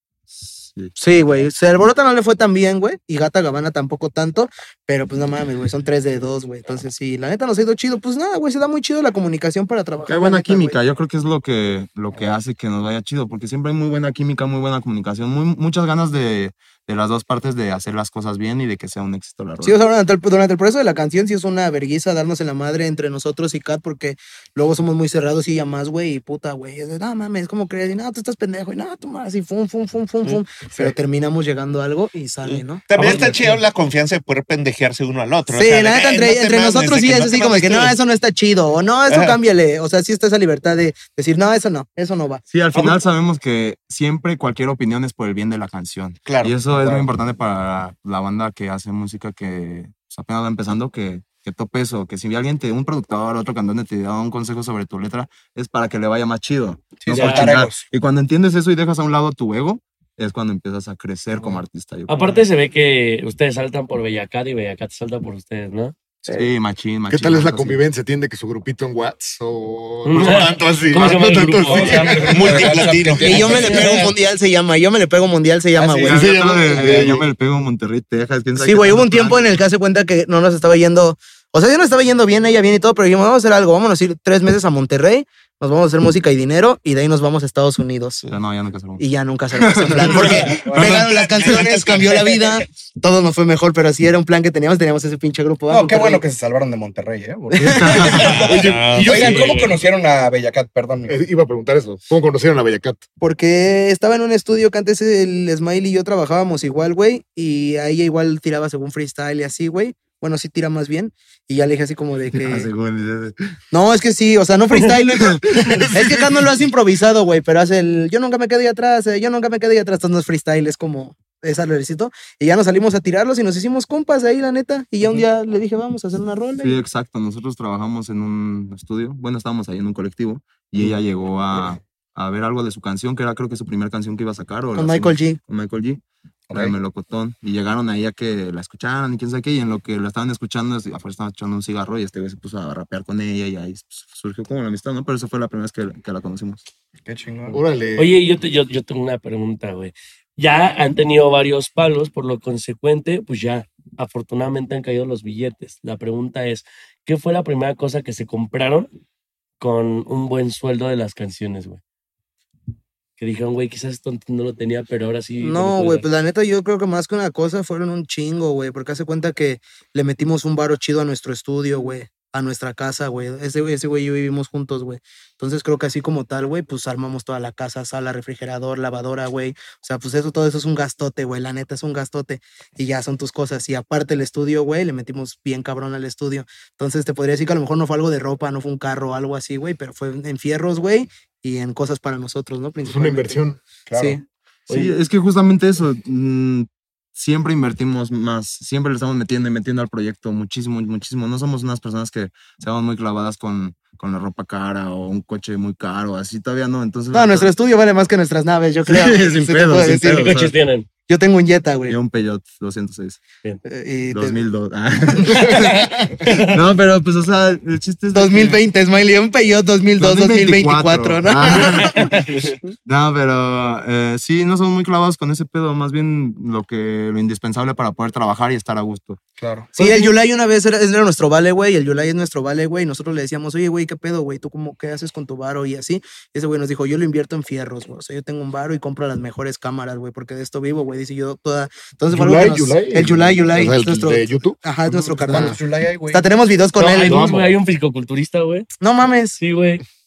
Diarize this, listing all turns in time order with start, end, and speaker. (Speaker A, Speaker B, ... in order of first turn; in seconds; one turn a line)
Speaker A: 0.4-1.0
Speaker B: 1.0-10.8
Speaker A: 10.1-19.8
Speaker B: 19.6-32.9
Speaker C: 32.5-38.0
Speaker D: 32.9-33.5
Speaker E: 33.0-33.5
Speaker B: 35.5-42.4
Speaker C: 39.1-39.4
Speaker A: 42.5-62.4
Speaker E: 42.7-43.0
Speaker C: 46.2-46.5
Speaker E: 46.6-47.1
Speaker E: 57.0-57.9
Speaker D: 57.1-57.5
Speaker D: 62.1-65.9
Speaker A: 66.3-67.8
Speaker F: 67.1-72.8
Speaker D: 70.0-72.1
Speaker E: 71.6-74.1
Speaker C: 72.3-73.8
Speaker B: 73.2-76.9
Speaker D: 73.6-74.1
Speaker E: 75.8-76.2
Speaker A: 76.0-79.4
Speaker F: 76.1-77.3
Speaker B: 78.6-88.3
Speaker A: 88.3-91.0
Speaker B: 89.0-96.2
Speaker E: 90.6-91.0
Speaker C: 90.9-92.3
Speaker E: 95.7-101.2
Speaker B: 97.5-98.0
Speaker A: 97.7-98.5
Speaker F: 98.0-99.7
Speaker C: 98.5-99.7
Speaker F: 101.1-103.0
Speaker B: 103.2-112.7
Speaker A: 112.3-113.3
Speaker B: 113.7-126.8
Speaker A: 126.6-146.6
Speaker B: 134.7-135.4
Speaker E: 136.5-136.7
Speaker E: 147.1-147.6
Speaker F: 147.5-148.1
Speaker D: 148.0-158.9
Speaker D: 159.6-161.8
Speaker D: 163.2-166.0
Speaker B: 165.4-193.4
Speaker F: 192.8-193.6
Speaker E: 193.9-194.2
Speaker B: 193.9-194.2
Speaker A: 194.7-207.5
Speaker B: 207.1-210.5
Speaker A: 208.9-210.5
Speaker D: 210.2-210.9
Speaker B: 211.1-211.9
Speaker A: 211.9-213.2
Speaker B: 213.7-214.4
Speaker A: 214.1-218.6
Speaker B: 218.1-222.2
Speaker A: 220.0-229.2
Speaker E: 229.4-230.0
Speaker B: 229.8-245.6
Speaker F: 242.1-244.6
Speaker E: 244.9-246.2
Speaker B: 246.1-247.3
Speaker D: 246.8-248.7
Speaker B: 248.8-249.4
Speaker D: 249.4-249.8